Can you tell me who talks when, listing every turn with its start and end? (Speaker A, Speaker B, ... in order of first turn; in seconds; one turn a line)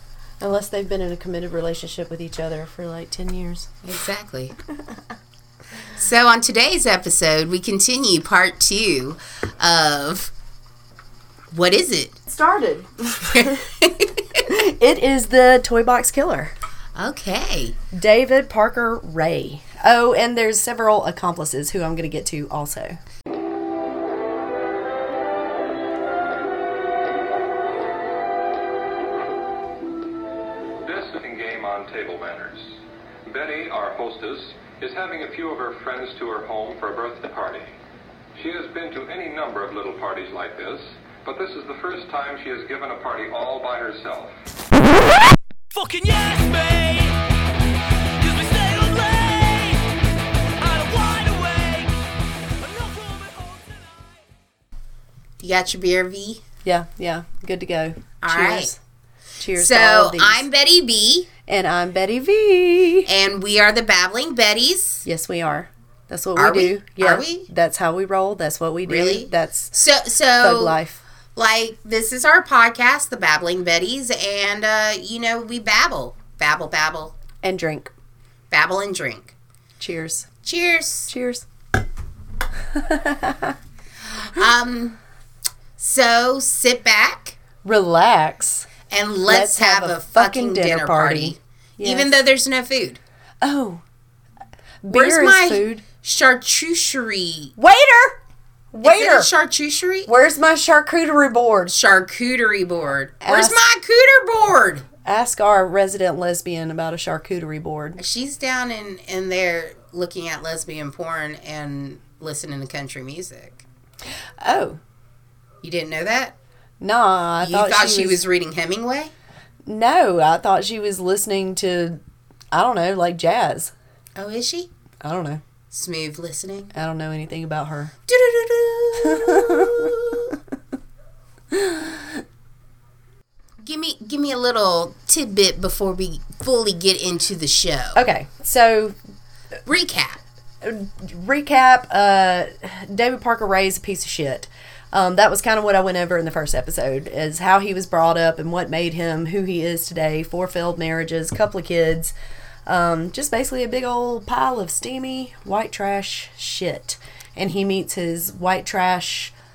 Speaker A: 0.4-3.8
Speaker B: 3.8-4.5
Speaker B: 6.0-10.3
Speaker B: 11.5-12.2
Speaker A: 12.3-13.6
Speaker B: 13.3-14.4
Speaker A: 14.5-16.5
Speaker B: 16.9-17.8
Speaker A: 17.9-23.0
Speaker C: 30.8-32.7
Speaker C: 33.2-37.7
Speaker C: 38.4-44.3
Speaker D: 45.7-47.2
Speaker D: 48.2-49.8
Speaker D: 50.6-51.9
Speaker D: 52.6-54.3
Speaker B: 55.4-56.4
Speaker A: 56.6-58.8
Speaker B: 58.2-58.7
Speaker A: 59.4-60.4
Speaker B: 59.6-61.3
Speaker A: 61.5-63.1
Speaker B: 63.0-65.0
Speaker A: 65.0-69.7
Speaker B: 66.3-67.5
Speaker B: 68.9-70.8
Speaker A: 70.4-71.0
Speaker B: 71.3-77.1
Speaker A: 77.4-77.9
Speaker B: 78.5-79.3
Speaker A: 79.8-80.3
Speaker B: 80.4-81.1
Speaker A: 81.1-81.5
Speaker A: 82.7-83.5
Speaker B: 84.3-85.0
Speaker B: 85.8-87.3
Speaker A: 87.6-88.7
Speaker B: 88.9-93.0
Speaker A: 89.3-92.1
Speaker A: 93.4-93.8
Speaker A: 94.8-95.8
Speaker B: 94.9-97.5
Speaker A: 97.6-98.2
Speaker A: 98.7-99.3
Speaker B: 98.8-100.1
Speaker A: 100.0-101.7
Speaker B: 101.7-104.8
Speaker A: 103.2-103.6
Speaker A: 105.0-108.0
Speaker B: 108.0-113.6
Speaker A: 114.4-114.8
Speaker B: 115.6-116.3
Speaker A: 116.8-118.2
Speaker B: 117.4-119.1
Speaker A: 119.7-122.0
Speaker A: 122.5-123.7
Speaker B: 124.2-124.7
Speaker A: 125.0-125.4
Speaker B: 125.7-126.7
Speaker A: 126.7-127.9
Speaker B: 128.1-130.3
Speaker A: 129.0-129.9
Speaker A: 131.5-132.2
Speaker B: 133.6-138.0
Speaker A: 137.9-138.9
Speaker B: 139.7-140.2
Speaker A: 140.6-152.1
Speaker A: 152.7-159.3